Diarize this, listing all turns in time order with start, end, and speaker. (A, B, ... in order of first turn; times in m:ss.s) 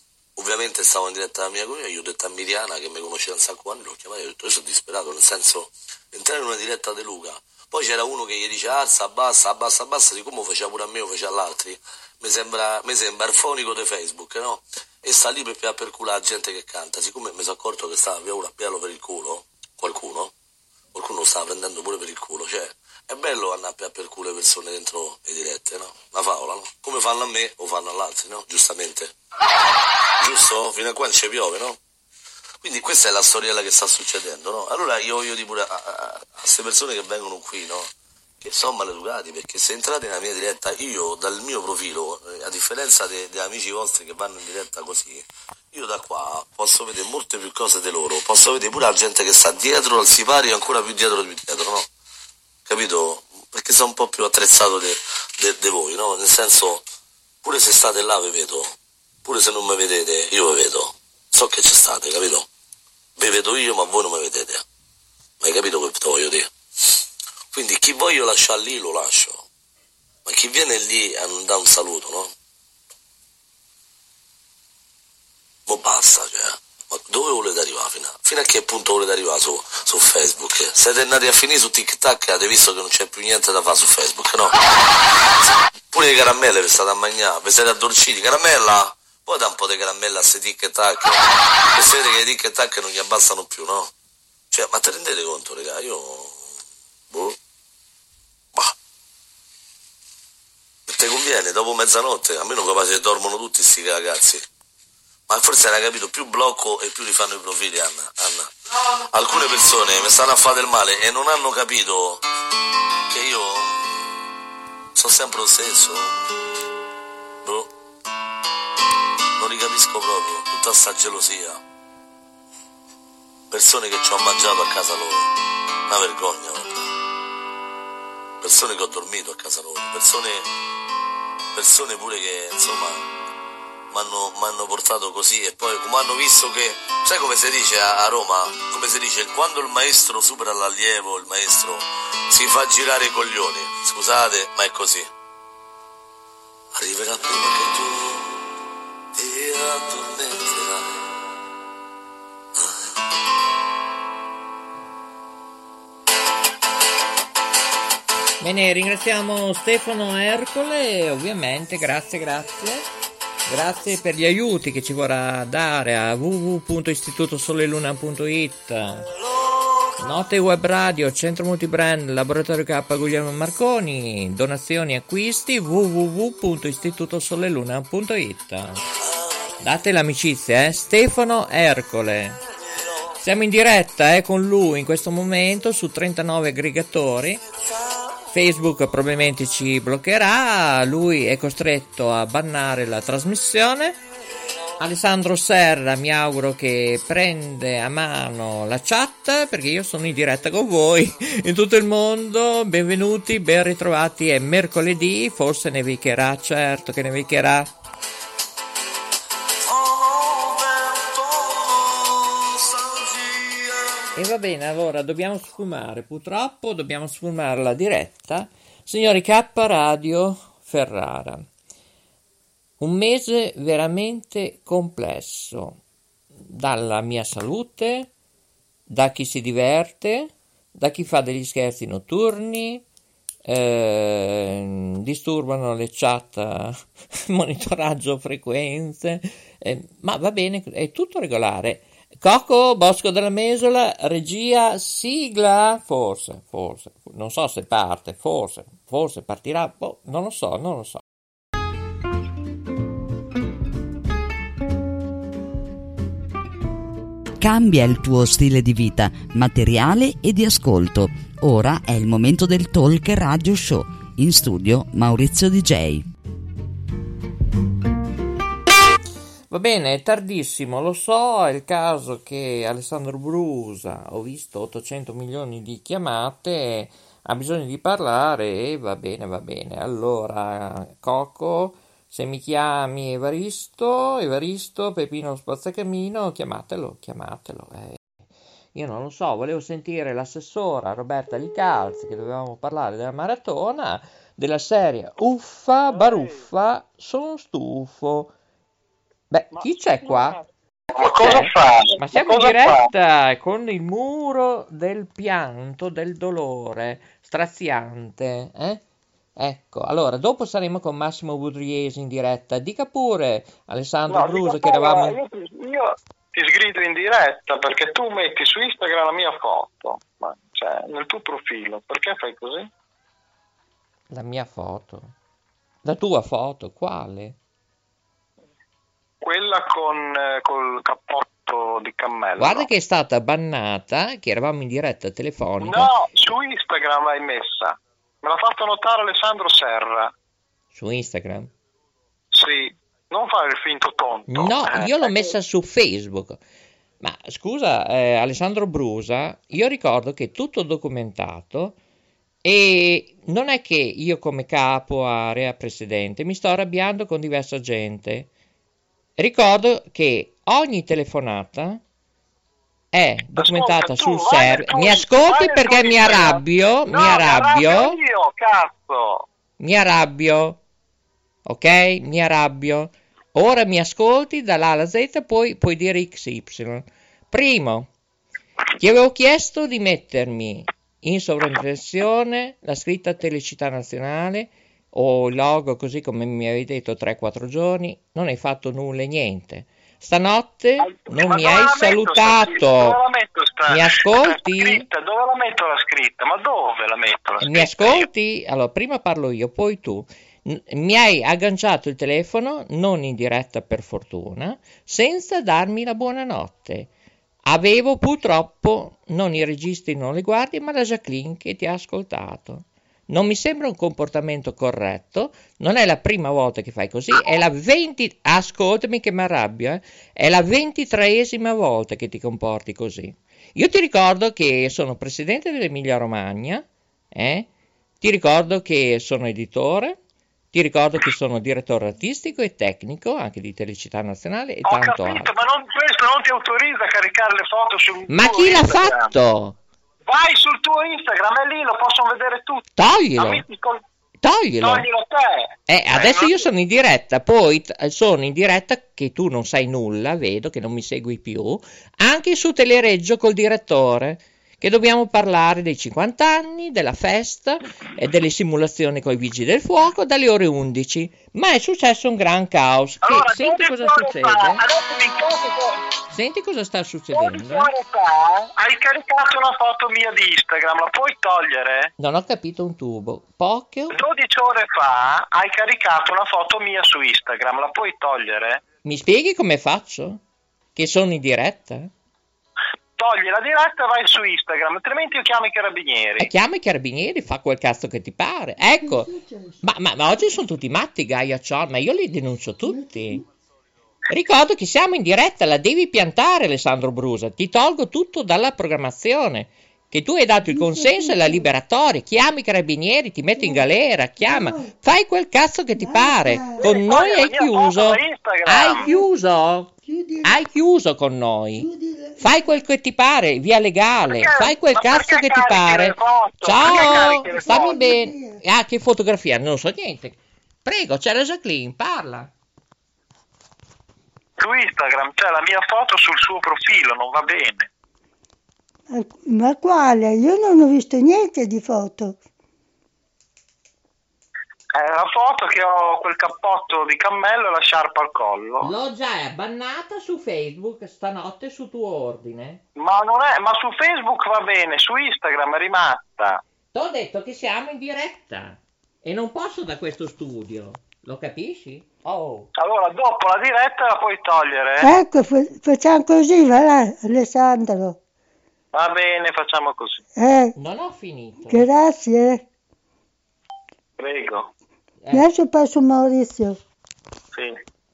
0:00.4-0:20.3 A
0:20.9-0:29.1 A
0:30.2-0:31.8 A
0:32.6-0:37.9 A
0:38.4-0:51.8 A
0:52.6-0:56.8 A
0:57.4-0:58.7 A
0:59.2-1:02.5 A
1:03.2-1:04.6 A
1:05.4-1:06.5 A
1:07.5-1:09.4 A
1:10.2-1:12.3 A
1:15.7-1:24.6 A
1:25.9-1:33.9 A
1:34.5-1:36.4 A
1:37.1-1:37.4 A
1:40.9-1:44.4 A
1:45.3-1:52.2 A
1:53.1-1:54.1 A
1:55.0-1:56.2 A
1:57.4-1:57.7 A
1:59.4-2:01.6 A
2:03.5-2:05.3 A
2:05.9-2:06.9 A
2:08.4-2:10.5 A
2:11.5-2:13.0 A
2:13.9-2:25.1 A
2:26.8-2:28.4 A
2:29.1-2:31.1 A
2:32.6-2:32.9 A
2:38.4-2:42.9 B
2:43.5-2:49.1 B
2:49.4-2:49.7 A
2:50.0-2:58.8 B
2:59.6-3:02.4 B
3:03.2-3:07.4 B
3:08.3-3:14.0 B
3:14.8-3:27.7 B
3:29.6-3:34.0 A
3:34.2-3:41.5 B
3:42.8-3:45.8 B
3:46.5-3:48.1 B
3:48.9-3:52.8 B
3:53.5-4:11.0 B
4:17.4-4:26.0 C
4:29.5-4:48.0 B
4:48.8-4:58.3 B
4:59.3-5:00.4 B
5:00.9-5:02.9 D
5:01.0-5:08.8 B
5:09.4-5:15.2 B
5:14.1-5:22.7 D
5:24.1-5:25.1 B
5:25.8-5:27.4 B
5:29.2-5:32.7 D
5:32.4-5:35.9 B
5:35.6-5:40.1 D
5:40.7-5:41.5 B
5:42.3-5:45.3 D
5:44.3-5:46.4 B
5:47.0-5:51.8 B
5:52.4-5:58.3 B
5:59.2-6:01.8 B
6:02.9-6:08.0 B
6:03.4-6:09.2 D
6:09.6-6:10.6 B
6:11.5-6:17.9 B
6:18.8-6:33.0 B
6:30.8-6:38.1 D
6:33.7-6:34.9 B
6:37.4-6:46.9 B
6:47.5-7:07.5 B
7:08.0-7:10.0 B
7:10.5-7:15.3 B
7:14.6-7:19.1 D
7:18.1-7:19.6 B
7:20.1-7:23.8 D
7:22.8-7:23.4 B
7:24.2-7:24.9 B
7:24.6-7:26.5 D
7:25.7-7:44.6 B
7:43.0-7:45.8 D
7:46.1-7:47.7 B
7:47.1-7:51.9 D
7:52.0-7:54.0 B
7:53.9-7:58.6 D
7:58.8-8:00.2 B
8:00.8-8:01.9 B
8:03.0-8:06.3 D
8:06.2-8:13.2 B
8:08.6-8:09.6 E
8:12.6-8:13.2 E
8:14.1-8:29.7 B
8:20.5-8:21.5 E
8:23.3-8:23.6 E
8:24.2-8:24.7 E
8:25.8-8:26.7 E
8:26.6-8:28.9 D
8:28.8-8:29.1 E
8:29.8-8:30.4 E
8:30.2-8:31.7 B
8:31.6-8:32.5 E
8:32.2-8:42.3 B
8:34.0-8:37.8 D
8:36.6-8:38.4 E
8:44.4-8:47.7 D
8:48.9-8:52.2 E
8:54.8-8:58.7 D
8:58.6-9:02.6 B
9:02.8-9:06.4 D
9:06.7-9:12.5 B
9:12.6-9:14.9 D
9:14.8-9:18.0 E
9:18.7-9:20.0 D
9:20.2-9:20.5 E
9:20.6-9:21.6 B
9:21.5-9:22.4 E
9:24.0-9:24.5 D
9:25.0-9:25.3 B
9:25.1-9:26.6 E